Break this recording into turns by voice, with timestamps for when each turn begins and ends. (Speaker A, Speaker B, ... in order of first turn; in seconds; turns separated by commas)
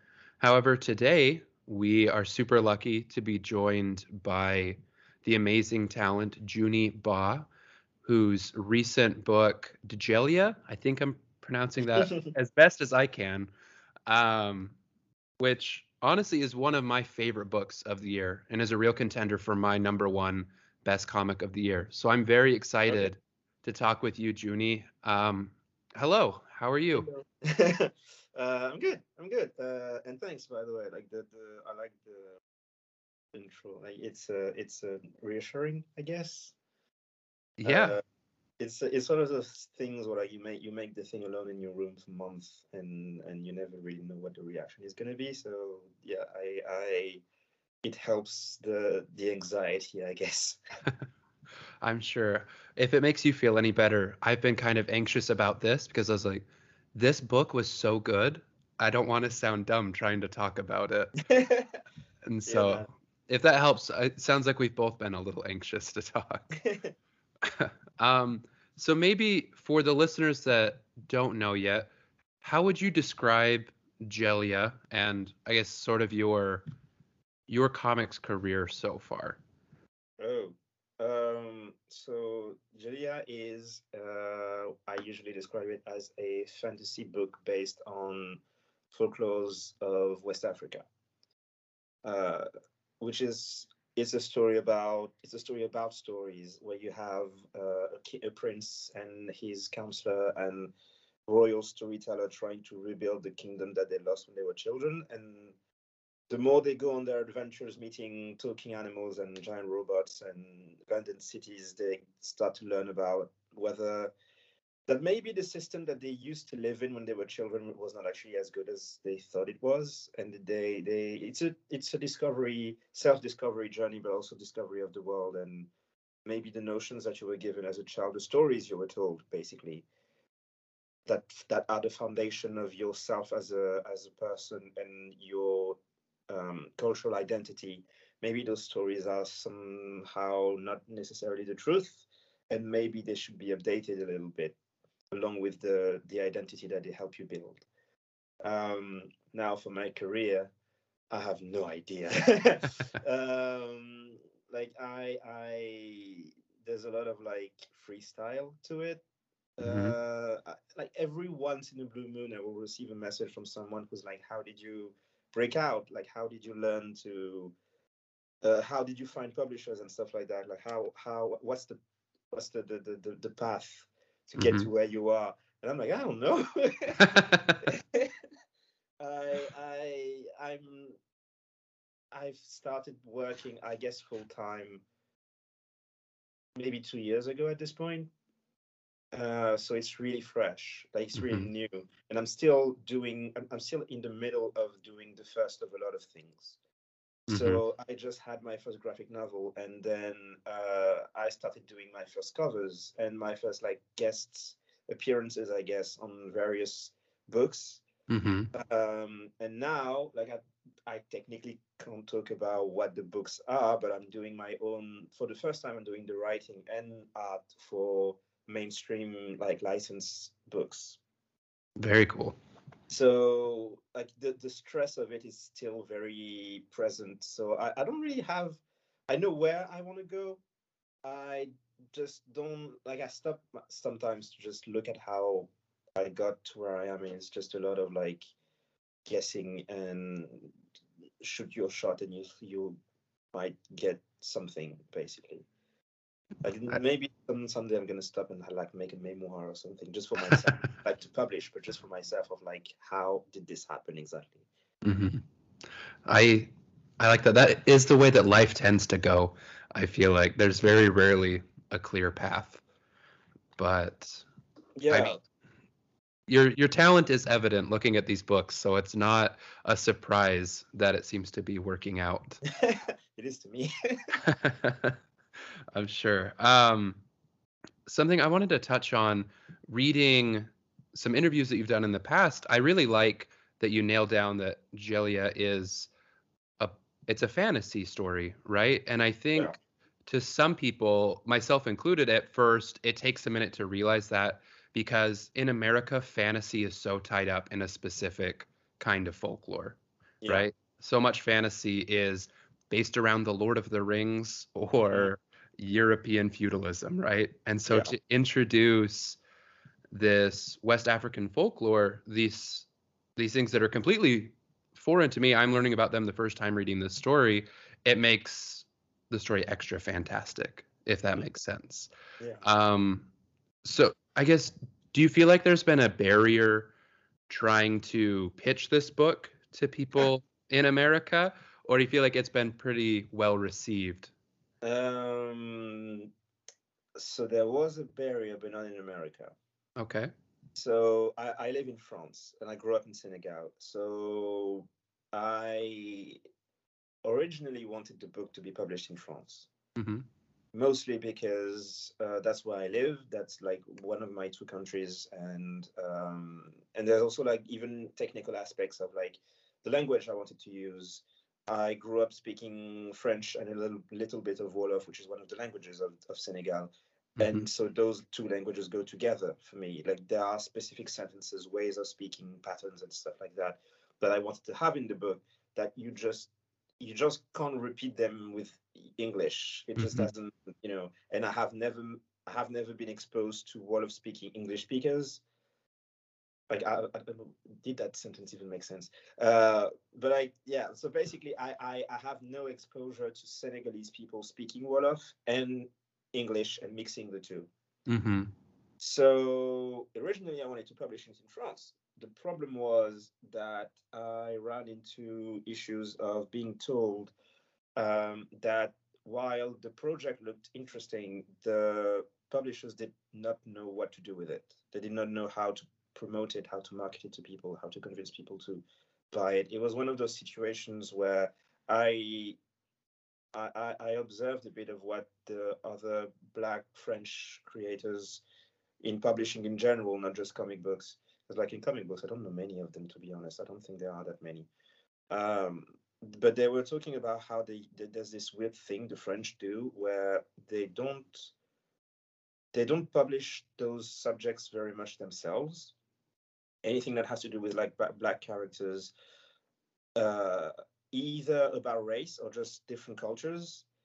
Speaker A: 0.4-7.5, Speaker A: 8.0-13.5, Speaker B: 11.8-12.3, Speaker A: 14.1-14.8, Speaker A: 15.4-27.1, Speaker B: 27.0-32.4, Speaker B: 33.3-36.5, Speaker A: 37.6-38.0, Speaker B: 37.6-38.0, Speaker B: 38.6-47.2, Speaker B: 47.8-50.6, Speaker A: 51.8-61.1, Speaker B: 61.2-61.8, Speaker A: 62.3-66.5, Speaker B: 62.5-62.9, Speaker B: 66.5-66.9, Speaker A: 67.4-71.9, Speaker A: 72.4-76.6, Speaker A: 77.5-79.4, Speaker B: 80.2-90.8, Speaker B: 92.0-92.5, Speaker B: 93.0-100.7, Speaker B: 101.3-105.5, Speaker B: 106.3-114.1, Speaker B: 114.9-125.7, Speaker B: 126.3-129.8, Speaker B: 131.1-135.8, Speaker B: 136.3-144.6, Speaker B: 145.1-147.6, Speaker B: 148.4-150.5, Speaker B: 151.1-159.0, Speaker B: 159.6-167.5, Speaker A: 159.6-160.0, Speaker B: 168.4-171.8, Speaker B: 172.3-178.1, Speaker A: 174.4-174.7, Speaker A: 177.0-177.6, Speaker B: 179.0-181.0, Speaker B: 182.1-184.8, Speaker B: 186.6-188.1, Speaker B: 189.1-196.6, Speaker A: 191.2-191.5, Speaker A: 197.3-197.6, Speaker B: 197.3-207.8, Speaker A: 208.1-208.5, Speaker B: 208.5-221.0, Speaker A: 221.8-222.4, Speaker B: 222.9-230.4, Speaker B: 231.0-238.3, Speaker B: 239.1-240.5, Speaker B: 241.2-242.8, Speaker B: 243.3-245.4, Speaker B: 246.4-254.4, Speaker A: 254.8-255.2, Speaker A: 256.1-262.6, Speaker A: 263.6-264.2, Speaker B: 264.8-265.2, Speaker A: 266.3-272.4, Speaker B: 272.4-274.1, Speaker A: 274.2-275.0, Speaker A: 275.8-277.0, Speaker A: 277.9-285.9, Speaker A: 286.6-289.5, Speaker A: 290.1-309.2, Speaker B: 300.2-300.5, Speaker A: 309.9-321.9, Speaker B: 322.2-322.4, Speaker A: 322.4-323.1, Speaker A: 323.6-326.7, Speaker A: 327.3-334.1, Speaker B: 334.6-336.1, Speaker B: 337.0-339.4, Speaker A: 339.8-340.1, Speaker B: 340.6-346.2, Speaker B: 347.0-349.5, Speaker A: 349.8-350.1, Speaker B: 350.5-385.2, Speaker A: 367.2-367.4, Speaker A: 379.8-380.1, Speaker B: 386.5-397.5, Speaker A: 397.9-398.3, Speaker B: 398.8-407.1, Speaker B: 407.8-422.4, Speaker B: 423.3-428.2, Speaker B: 428.8-434.5, Speaker B: 435.1-441.3, Speaker B: 442.5-445.7, Speaker B: 446.6-448.9, Speaker B: 450.0-453.6